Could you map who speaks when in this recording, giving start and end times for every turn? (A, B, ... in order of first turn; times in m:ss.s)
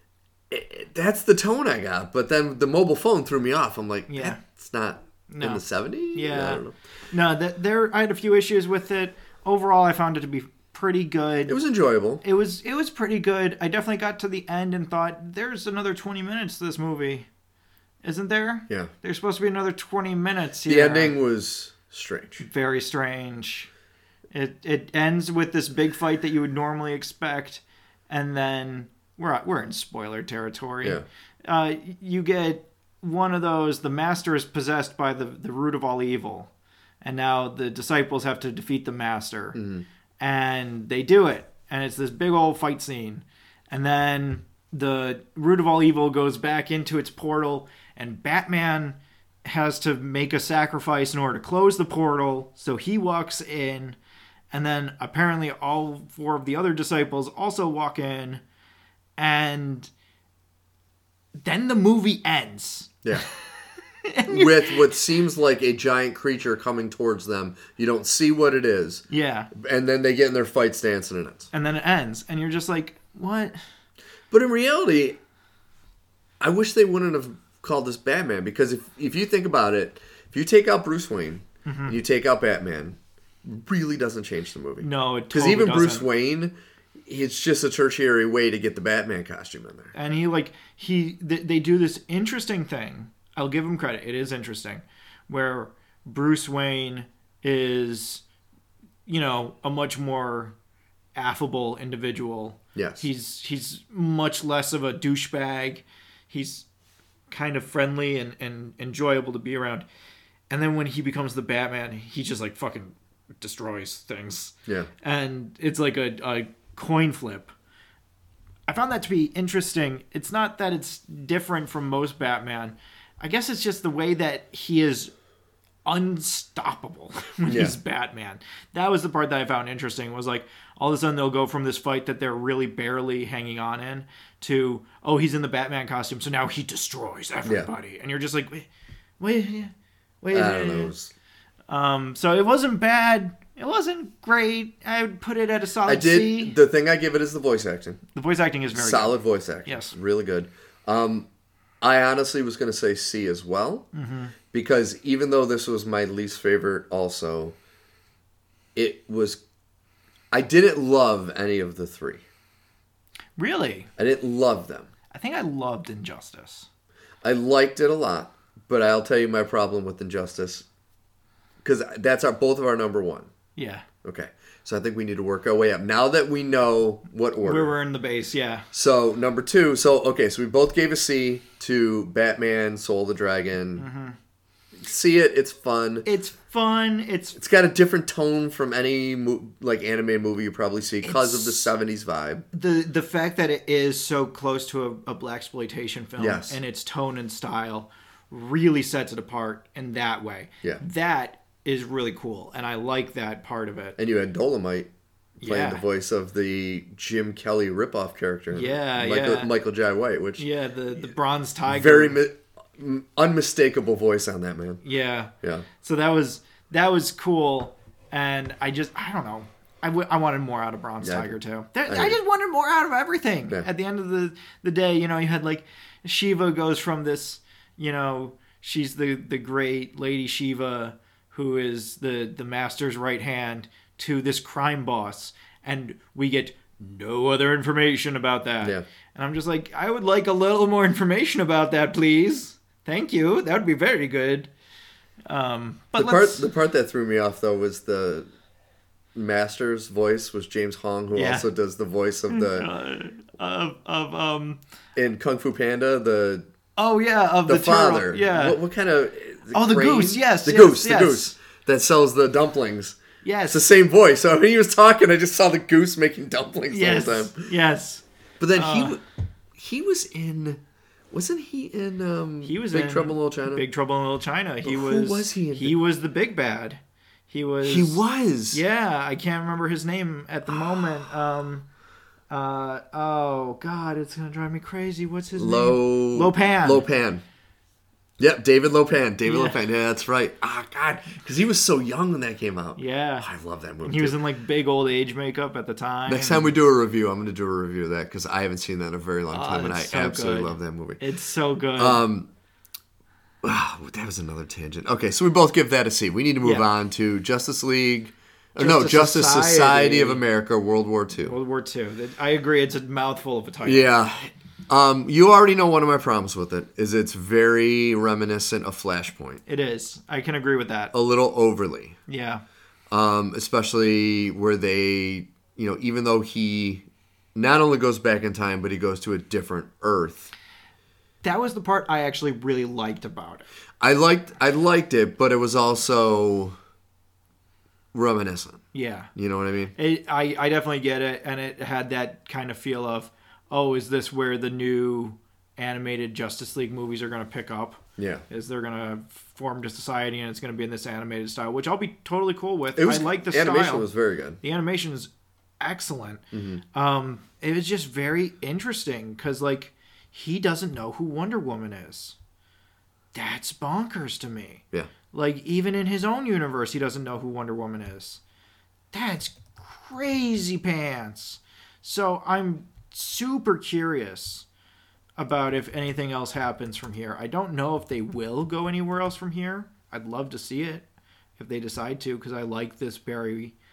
0:00.5-0:06.7 A
0:04.1-0:04.4 B
0:05.3-0:11.6 B
0:11.5-0:12.2 A
0:12.2-0:17.3 B
0:18.0-0:21.1 B
0:20.7-0:22.4 A
0:22.4-0:23.7 B
0:24.3-0:36.5 B
0:37.0-0:39.6 B
0:39.5-0:39.8 A
0:40.2-0:54.0 B
0:54.5-0:58.4 B
0:59.2-0:59.9 B
1:01.4-1:04.8 B
1:04.3-1:11.5 A
1:09.1-1:09.5 B
1:11.5-1:13.6 B
1:14.3-1:15.2 A
1:16.4-1:29.9 A
1:21.6-1:22.0 B
1:24.8-1:26.1 B
1:29.9-1:38.2 B
1:39.1-1:40.5 B
1:41.1-1:46.6 B
1:42.7-1:43.0 A
1:47.3-1:49.8 B
1:50.5-1:57.5 B
1:58.7-2:05.1 B
2:05.8-2:18.7 B
2:07.5-2:07.7 A
2:19.2-2:20.9 B
2:20.3-2:21.1 A
2:21.7-2:26.6 B
2:25.8-2:28.0 A
2:28.1-2:29.9 B
2:28.7-2:31.3 A
2:31.8-2:33.9 A
2:33.9-2:34.3 B
2:34.5-2:37.6 A
2:38.7-2:39.4 A
2:40.3-2:42.2 A
2:43.4-2:43.9 B
2:44.0-2:44.9 A
2:45.1-2:46.7 B
2:47.2-2:50.6 A
2:51.6-2:53.3 A
2:53.6-2:53.8 B
2:54.0-2:57.7 A
2:57.4-2:58.7 B
2:58.7-3:03.8 A
3:03.8-3:04.2 B
3:04.8-3:06.0 A
3:06.0-3:07.4 B
3:07.3-3:12.4 A
3:11.0-3:11.7 B
3:12.5-3:24.0 B
3:16.2-3:16.6 A
3:24.0-3:24.9 A
3:25.4-3:30.4 A
3:25.4-3:25.8 B
3:28.5-3:29.5 B
3:30.4-3:32.2 B
3:31.7-3:34.8 A
3:34.8-4:04.5 B
3:41.0-3:41.3 A
3:41.9-3:42.2 A
4:05.3-4:06.5 B
4:06.0-4:08.3 A
4:09.1-4:12.7 A
4:11.1-4:11.5 B
4:12.3-4:14.6 B
4:15.0-4:16.4 A
4:16.8-4:18.6 B
4:17.5-4:23.0 A
4:19.5-4:21.3 B
4:23.2-4:23.7 B
4:23.5-4:27.5 A
4:26.7-4:28.0 B
4:28.4-4:29.0 A
4:28.5-4:29.0 B
4:29.6-4:33.6 A
4:32.4-4:41.6 B
4:34.6-4:35.7 A
4:37.6-4:38.6 A
4:42.3-4:46.9 B
4:45.4-4:47.2 A
4:48.2-4:54.2 A
4:49.2-4:49.6 B
4:52.8-4:53.3 B
4:53.8-4:56.5 B
4:56.1-5:01.0 A
4:59.3-5:02.0 B
5:01.8-5:02.3 A
5:03.4-5:11.3 A
5:06.4-5:06.7 B
5:08.6-5:10.2 B
5:11.2-5:13.9 B
5:13.6-5:19.4 A
5:19.5-5:20.9 B
5:20.9-5:22.0 A
5:22.1-5:22.4 B
5:22.9-5:30.3 A
5:31.2-5:33.4 B
5:33.8-5:36.5 A
5:37.9-5:38.6 A
5:38.7-5:39.1 B
5:39.2-5:39.7 A
5:39.7-5:53.9 B
5:48.0-5:48.2 A
5:52.8-5:54.4 A
5:54.4-6:02.2 B
5:56.3-5:56.6 A
6:03.1-6:08.2 B
6:08.9-6:14.4 B
6:15.2-6:20.8 B
6:21.4-6:23.5 B